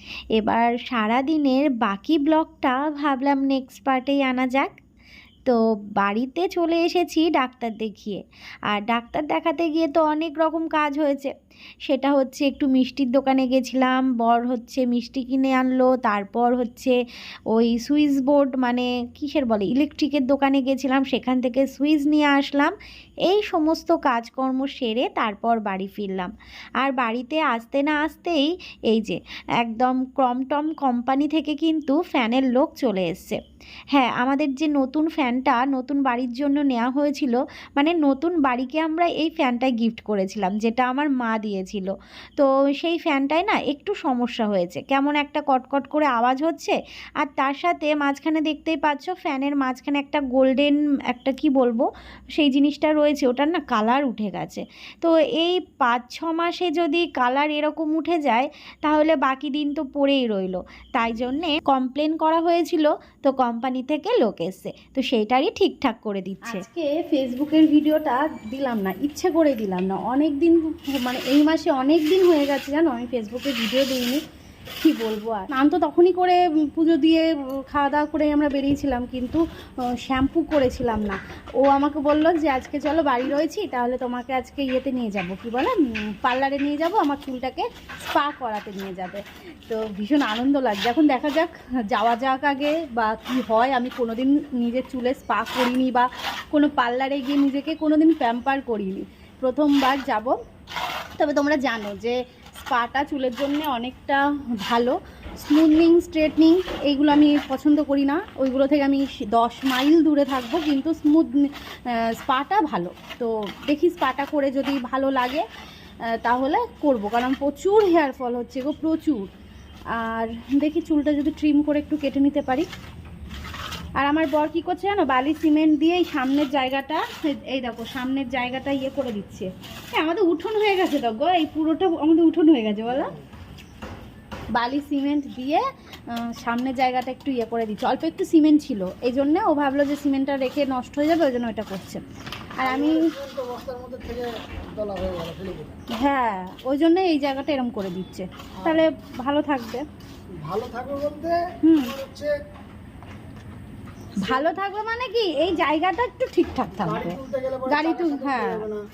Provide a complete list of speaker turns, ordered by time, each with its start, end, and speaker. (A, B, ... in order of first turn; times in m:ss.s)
0:00.4-0:04.7 A
0:05.5-0:08.2 A
0:08.7-0:11.3 A
0:11.9-0:17.0 A
0:17.5-0:22.7 A
0:23.3-0:26.3 A
0:26.8-0:33.4 A
0:33.9-0:51.9 A
0:52.4-1:06.6 A
1:06.4-1:14.2 B
1:14.8-1:19.4 B
1:20.0-1:40.3 B
1:41.2-1:55.4 B
1:56.1-1:59.3 B
2:00.0-2:02.7 B
2:04.0-2:13.1 B
2:14.5-2:22.0 B
2:22.6-2:23.1 B
2:22.6-2:25.8 C
2:26.0-2:29.8 B
2:28.6-2:28.8 C
2:30.3-2:32.3 C
2:31.6-2:32.0 B
2:34.2-2:38.7 B
2:36.7-2:38.8 C